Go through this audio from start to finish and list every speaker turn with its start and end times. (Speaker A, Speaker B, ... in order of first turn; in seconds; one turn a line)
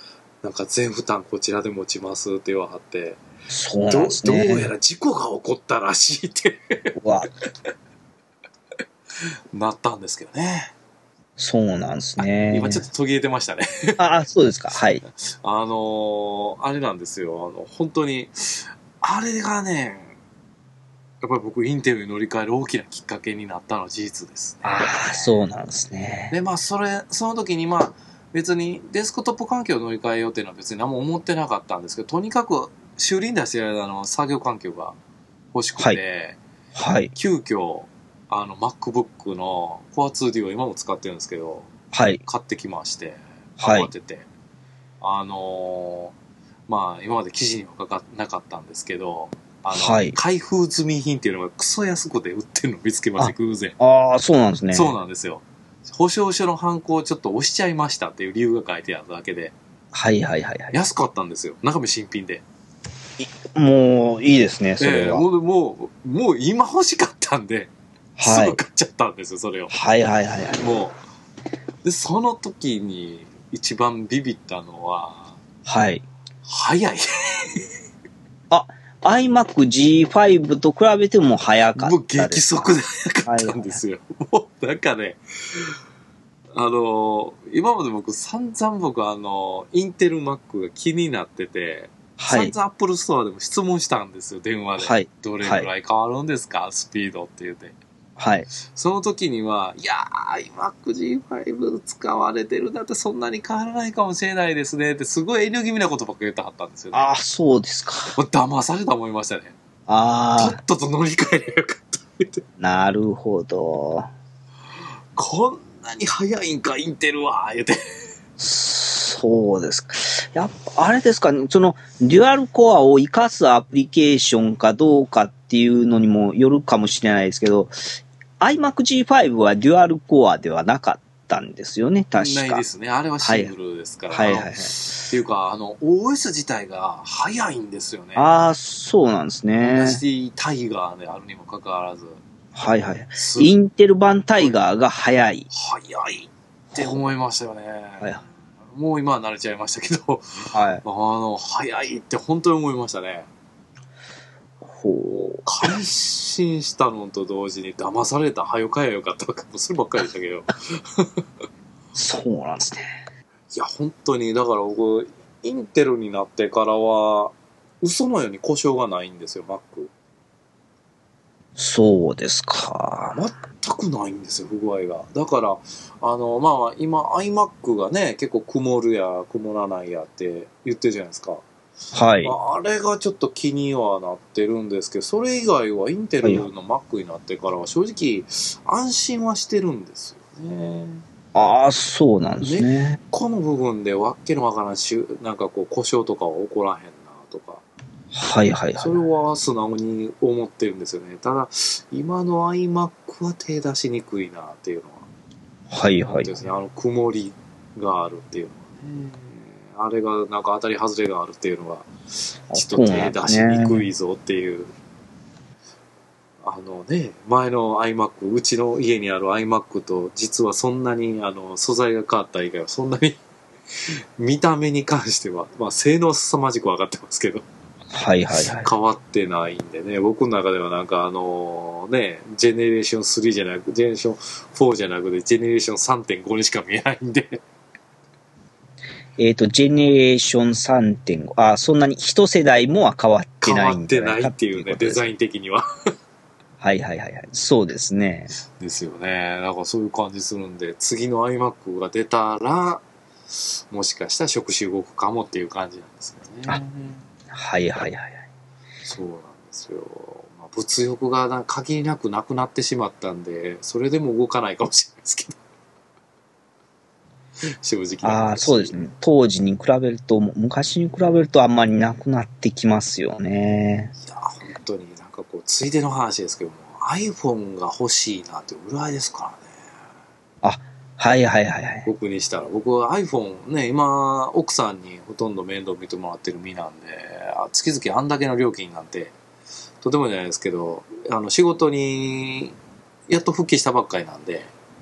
Speaker A: 0.4-3.2
Speaker B: 3.5-4.7
Speaker A: 3.9-7.0
Speaker B: 7.0-7.3
Speaker A: 9.5-10.7
Speaker B: 11.4-12.8
Speaker A: 12.2-14.0
Speaker B: 14.0-15.0
Speaker A: 15.0-20.1
Speaker A: 21.2-25.4
Speaker B: 24.6-26.3
Speaker A: 26.3-35.0
Speaker A: 35.5-36.4
Speaker B: 36.8-37.1
Speaker A: 37.1-41.7
Speaker B: 41.9-42.2
Speaker A: 42.2-44.3
Speaker B: 43.6-43.9
Speaker A: 45.0-46.1
Speaker A: 46.7-53.8
Speaker B: 49.7-50.1
Speaker B: 53.2-54.9
Speaker A: 54.7-59.5
Speaker B: 59.9-60.7
Speaker A: 60.7-62.4
Speaker B: 63.2-65.2
Speaker A: 64.8-69.8
Speaker B: 68.2-68.6
Speaker B: 69.7-70.6
Speaker A: 70.6-71.0
Speaker A: 71.8-75.4
Speaker B: 75.7-76.0
Speaker A: 76.5-77.7
Speaker B: 78.5-82.7
Speaker A: 81.8-85.7
Speaker B: 83.2-83.8
Speaker A: 86.5-97.7
Speaker B: 92.2-92.5
Speaker B: 94.8-95.7
Speaker B: 98.2-98.5
Speaker A: 98.6-107.1
Speaker B: 106.9-108.2
Speaker A: 108.1-109.5
Speaker B: 109.9-110.6
Speaker A: 110.4-112.4
Speaker B: 112.6-114.1
Speaker A: 115.2-117.8
Speaker B: 118.4-132.6
Speaker A: 132.1-138.3
Speaker B: 133.2-133.5
Speaker B: 134.1-134.7
Speaker B: 138.2-140.0
Speaker A: 139.6-142.2
Speaker B: 142.5-145.5
Speaker A: 143.1-143.5
Speaker A: 145.5-153.3
Speaker B: 150.5-150.8
Speaker B: 154.6-155.7
Speaker A: 155.1-161.1
Speaker B: 161.9-163.0
Speaker A: 163.5-169.9
Speaker B: 171.6-173.2
Speaker A: 173.1-181.4
Speaker B: 181.9-182.3
Speaker A: 182.2-191.0
Speaker B: 186.2-186.5
Speaker B: 191.3-193.0
Speaker A: 192.4-197.6
Speaker B: 198.1-199.0
Speaker A: 198.8-205.1
Speaker B: 205.7-206.3
Speaker A: 206.0-211.9
Speaker B: 212.5-213.8
Speaker A: 212.5-214.7
Speaker A: 216.4-223.2
Speaker A: 224.2-227.4
Speaker B: 227.9-228.7
Speaker A: 228.6-237.4
Speaker B: 239.2-245.0
Speaker A: 243.4-245.6
Speaker B: 246.6-248.3
Speaker A: 248.6-252.8
Speaker A: 253.4-257.0
Speaker B: 257.3-258.2
Speaker A: 258.8-265.4
Speaker A: 267.6-268.7
Speaker B: 268.0-273.9
Speaker A: 274.0-279.5
Speaker B: 280.4-281.9
Speaker A: 281.8-289.1
Speaker A: 289.8-292.5
Speaker A: 293.1-294.5